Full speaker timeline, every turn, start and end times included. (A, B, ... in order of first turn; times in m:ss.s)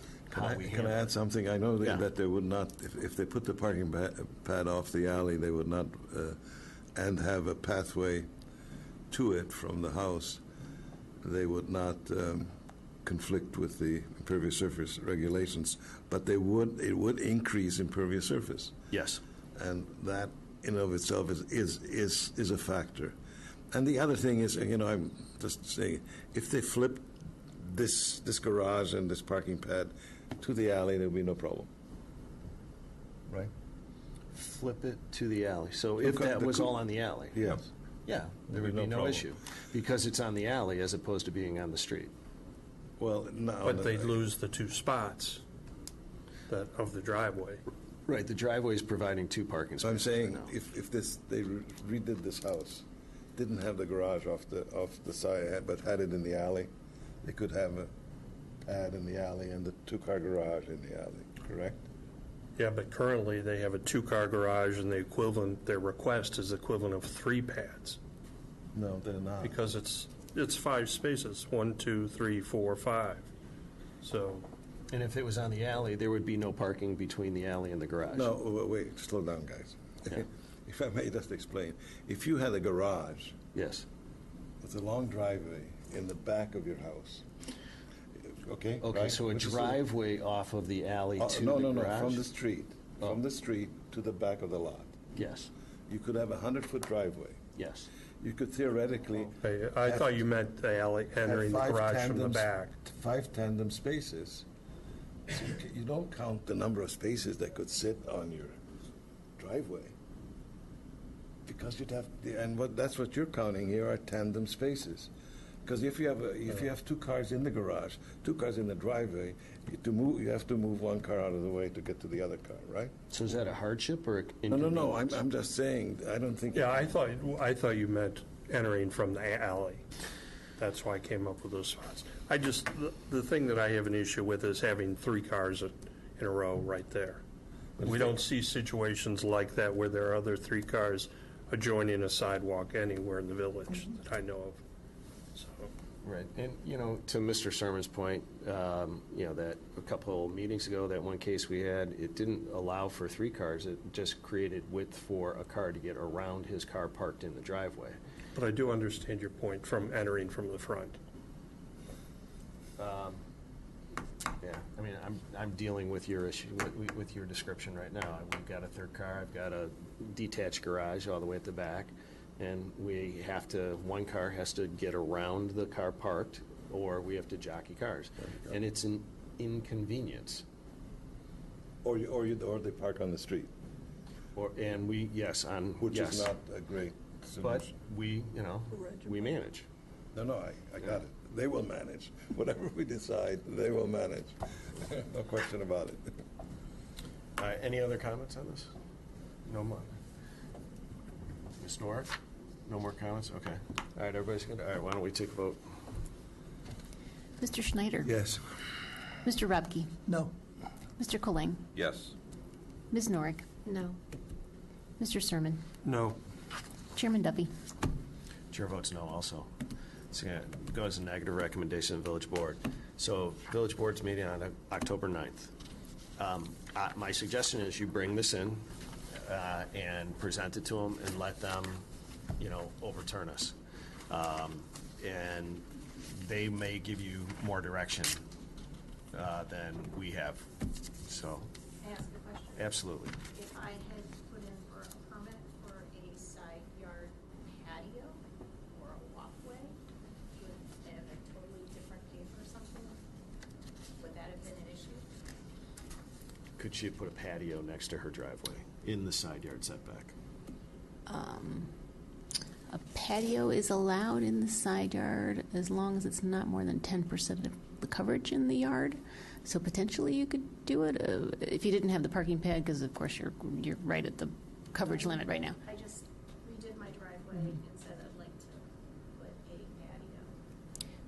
0:00.3-0:06.4 A
0:00.3-0:01.1 B
0:07.0-0:08.3 A
0:09.1-0:10.4 A
0:11.2-0:12.5 A
0:13.0-0:18.7 A
0:18.9-0:19.2 B
0:19.6-0:23.2 A
0:23.7-0:31.7 A
0:34.3-0:37.4 B
0:36.0-0:36.8 A
0:37.3-0:37.7 A
0:38.1-0:42.1 B
0:38.5-0:39.3 A
0:43.0-0:44.2 A
0:43.6-0:45.4 C
0:46.5-0:47.6 C
0:48.1-0:50.5 B
0:49.8-0:52.8 A
0:53.4-0:56.7 A
0:57.2-0:57.9 A
0:58.7-1:01.8 A
1:02.6-1:08.0 C
1:08.7-1:09.6 A
1:09.4-1:13.3 C
1:14.0-1:14.5 C
1:14.9-1:18.3 B
1:18.1-1:23.3 A
1:23.5-1:23.9 B
1:24.6-1:27.2 A
1:28.2-1:29.8 A
1:28.8-1:32.2 B
1:31.2-1:35.0 A
1:35.2-1:35.5 B
1:35.9-1:37.4 A
1:37.6-1:37.9 B
1:38.2-1:40.2 A
1:39.4-1:42.7 C
1:41.2-1:44.5 A
1:45.3-1:48.6 A
1:49.4-1:49.9 A
1:51.5-1:55.1 A
1:55.6-2:02.9 A
2:03.1-2:05.2 B
2:04.5-2:06.9 A
2:06.5-2:09.8 C
2:10.6-2:17.2 C
2:17.8-2:24.6 C
2:25.3-2:25.7 C
2:26.0-2:38.0 B
2:38.4-2:41.0 C
2:42.8-2:43.2 B
2:44.4-3:00.4 B
3:01.8-3:03.5 A
3:04.4-3:06.3 B
3:05.8-3:07.7 A
3:07.4-3:09.7 B
3:10.1-3:16.1 A
3:17.4-3:18.7 B
3:19.5-3:20.0 B
3:21.6-3:25.6 B
3:27.4-3:28.1 D
3:28.1-3:28.5 A
3:29.3-3:30.0 D
3:31.0-3:31.6 D
3:31.8-3:32.1 A
3:32.9-3:33.5 D
3:33.6-3:34.0 E
3:35.0-3:35.6 D
3:35.8-3:36.2 C
3:37.0-3:37.5 D
3:38.5-3:39.5 B
3:40.1-3:45.5 B
3:46.2-3:51.8 B
3:52.4-3:53.6 B
3:54.1-3:58.2 B
3:59.1-4:00.5 B
4:01.1-4:01.5 B
4:01.8-4:02.7 E
4:02.6-4:03.2 B
4:03.3-4:08.2 E
4:08.7-4:09.8 E
4:10.4-4:13.0 E
4:14.0-4:15.1 E
4:16.6-4:20.2 B
4:21.1-4:21.7 D
4:22.7-4:35.5 D
4:34.8-4:40.4 E